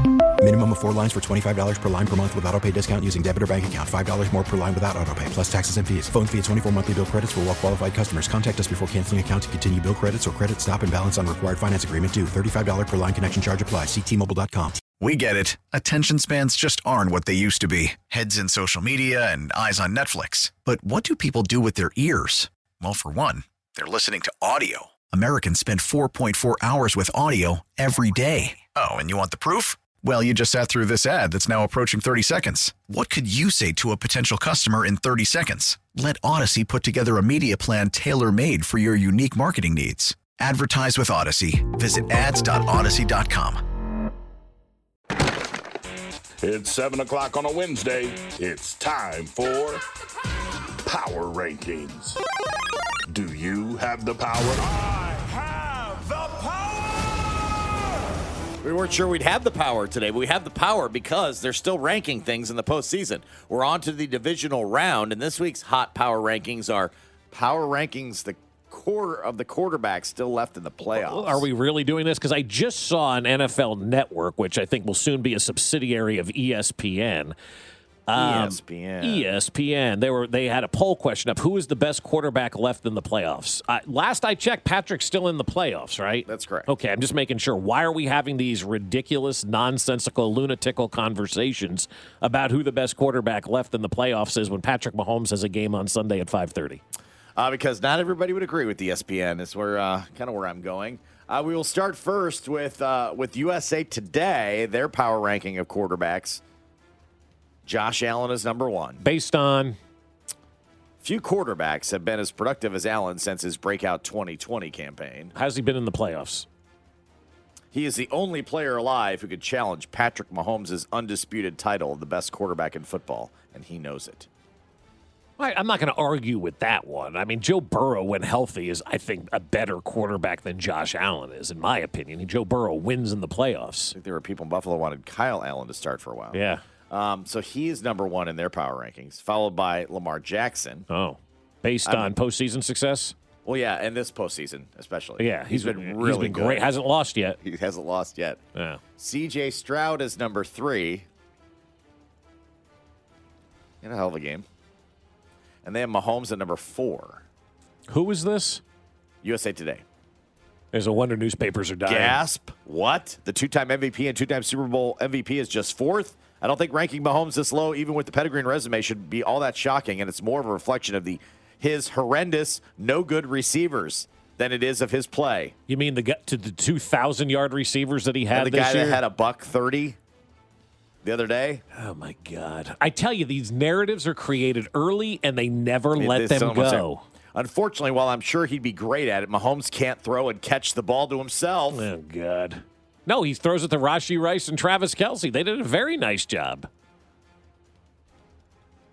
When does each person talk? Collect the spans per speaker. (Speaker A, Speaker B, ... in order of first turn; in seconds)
Speaker A: 0.4-14.8
Speaker B: 15.0-43.6
Speaker C: 46.4-49.8, 50.9-52.2, 53.1-54.7, 55.9-56.5
Speaker D: 58.6-71.5, 78.1-79.3, 86.2-86.7, 97.3-106.4, 107.6-109.0, 111.0-115.3, 117.7-124.3, 133.9-136.4, 136.9-140.9, 141.8-142.1, 143.4-146.7, 147.4-148.4, 149.0-151.1, 153.8-154.4, 155.6-157.2, 159.2-159.8, 161.9-175.5, 178.3-180.0, 181.0-181.6, 186.0-191.9
Speaker E: 70.8-77.3, 78.1-96.8, 109.0-109.8, 115.3-116.5, 125.4-133.9, 136.3-136.6, 140.9-143.1, 145.2-147.4, 148.5-148.8, 157.9-158.6, 160.7-162.2, 175.7-179.0, 181.7-187.0, 191.7-196.7